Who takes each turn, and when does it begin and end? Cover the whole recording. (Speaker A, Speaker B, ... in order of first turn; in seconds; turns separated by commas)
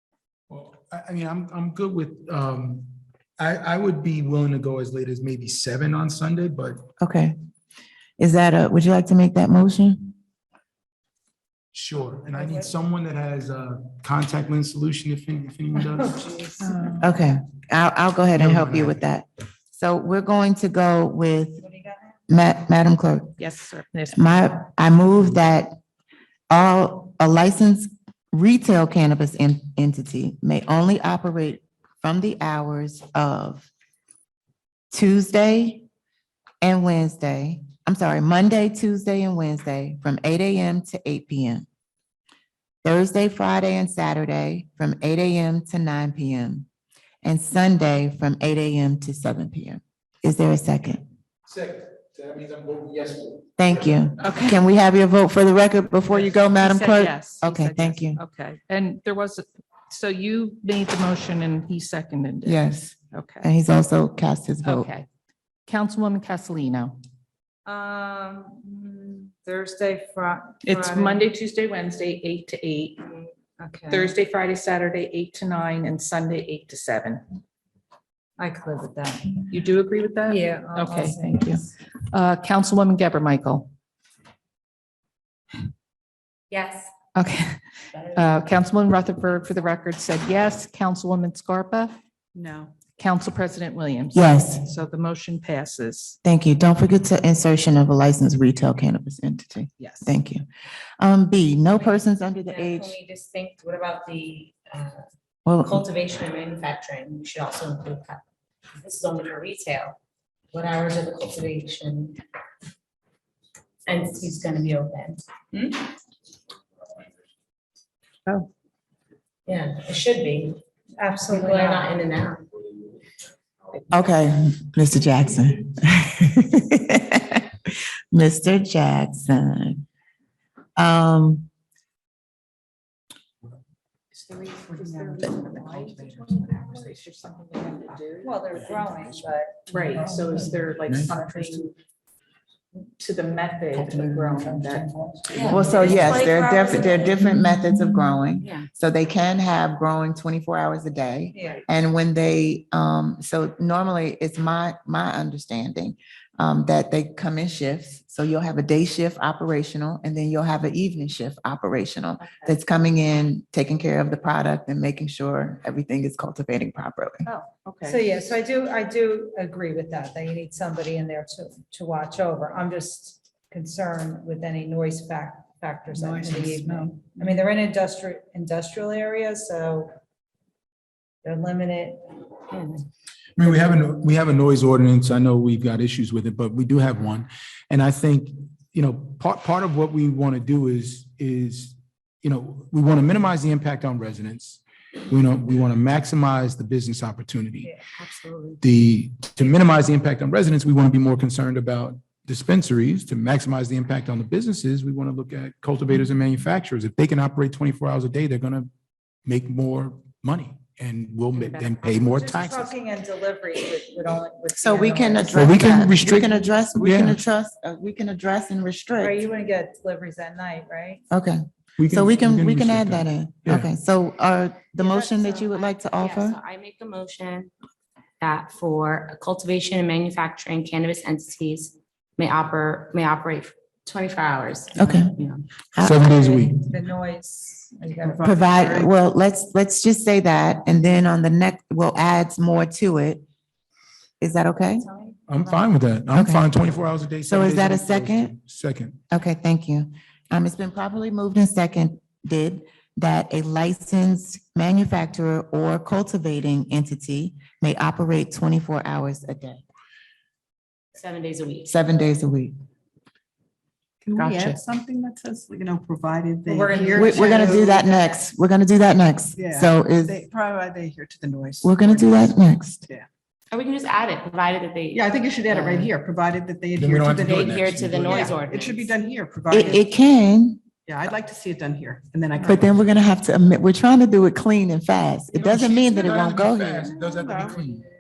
Speaker A: 0.5-6.9, Speaker B: 7.0-7.4, Speaker B: 8.2-10.1, Speaker A: 11.7-16.2, Speaker C: 12.3-12.7, Speaker C: 16.0-16.9, Speaker D: 16.6-17.0, Speaker B: 17.0-21.6, Speaker A: 18.4-19.0, Speaker C: 21.6-22.2, Speaker B: 22.3-23.4, Speaker D: 23.4-24.3, Speaker B: 24.1-25.8, Speaker B: 26.5-33.7, Speaker B: 34.9-35.9, Speaker B: 36.6-41.7, Speaker B: 42.8-46.7, Speaker B: 47.2-51.0, Speaker A: 51.5-54.1, Speaker B: 53.6-58.2, Speaker D: 54.2-54.6, Speaker D: 56.5-63.5, Speaker B: 62.4-64.9, Speaker D: 64.6-65.1, Speaker D: 65.7-67.0, Speaker C: 67.7-71.3, Speaker D: 70.6-73.3, Speaker C: 73.6-74.1, Speaker D: 73.9-77.2, Speaker C: 78.4-79.5, Speaker D: 79.5-83.7, Speaker C: 80.3-81.7, Speaker E: 86.5-86.9, Speaker D: 87.2-87.6, Speaker E: 87.9-88.4, Speaker D: 88.1-92.0, Speaker F: 92.3-92.8, Speaker D: 93.0-96.2, Speaker B: 94.1-94.6, Speaker B: 96.2-100.5, Speaker F: 99.8-100.1, Speaker B: 101.0-103.0, Speaker E: 101.7-105.1, Speaker B: 105.5-105.8, Speaker E: 105.6-108.2, Speaker E: 108.7-110.0, Speaker E: 110.5-112.2, Speaker E: 113.9-115.9, Speaker E: 119.5-120.6, Speaker C: 121.0-121.9, Speaker E: 121.3-122.5, Speaker B: 123.9-127.4, Speaker B: 128.1-129.8, Speaker B: 130.8-131.5, Speaker F: 134.1-139.1, Speaker D: 134.5-138.9, Speaker C: 138.2-140.5, Speaker F: 139.7-140.0, Speaker D: 139.7-141.7, Speaker A: 140.9-141.2, Speaker D: 143.0-146.1, Speaker B: 143.8-144.5, Speaker C: 144.8-145.8, Speaker E: 145.3-147.2, Speaker B: 145.5-167.3, Speaker E: 148.4-148.7, Speaker C: 151.3-151.6, Speaker F: 167.3-168.1, Speaker C: 167.9-179.9, Speaker F: 175.9-177.3, Speaker C: 181.2-182.0, Speaker E: 182.5-182.8, Speaker A: 183.4-197.7, Speaker E: 197.9-198.6, Speaker A: 198.6-208.7, Speaker A: 209.3-212.7, Speaker E: 211.4-211.9, Speaker C: 212.0-215.5, Speaker B: 214.6-219.2, Speaker A: 215.3-217.2, Speaker C: 219.0-221.0, Speaker B: 221.1-226.4, Speaker A: 221.8-223.7, Speaker E: 224.8-227.5, Speaker E: 228.2-235.4, Speaker B: 234.8-235.2, Speaker B: 235.8-236.4, Speaker A: 235.8-236.7, Speaker C: 236.7-238.3, Speaker F: 238.0-238.9, Speaker B: 238.2-243.2, Speaker B: 244.2-244.9, Speaker C: 244.9-245.2, Speaker A: 245.3-249.0, Speaker B: 246.1-246.5, Speaker B: 247.3-248.3, Speaker B: 249.1-259.6, Speaker E: 260.9-261.8, Speaker B: 261.7-262.5, Speaker F: 264.0-267.9, Speaker D: 264.2-264.6, Speaker C: 266.5-267.9, Speaker B: 266.9-270.2, Speaker F: 269.4-273.1, Speaker B: 271.6-272.8, Speaker E: 273.5-275.9, Speaker F: 274.9-279.9, Speaker A: 276.8-278.4, Speaker E: 277.3-278.9, Speaker B: 279.5-280.6, Speaker F: 280.9-282.8, Speaker B: 282.4-286.9, Speaker A: 285.3-287.9, Speaker F: 286.9-287.5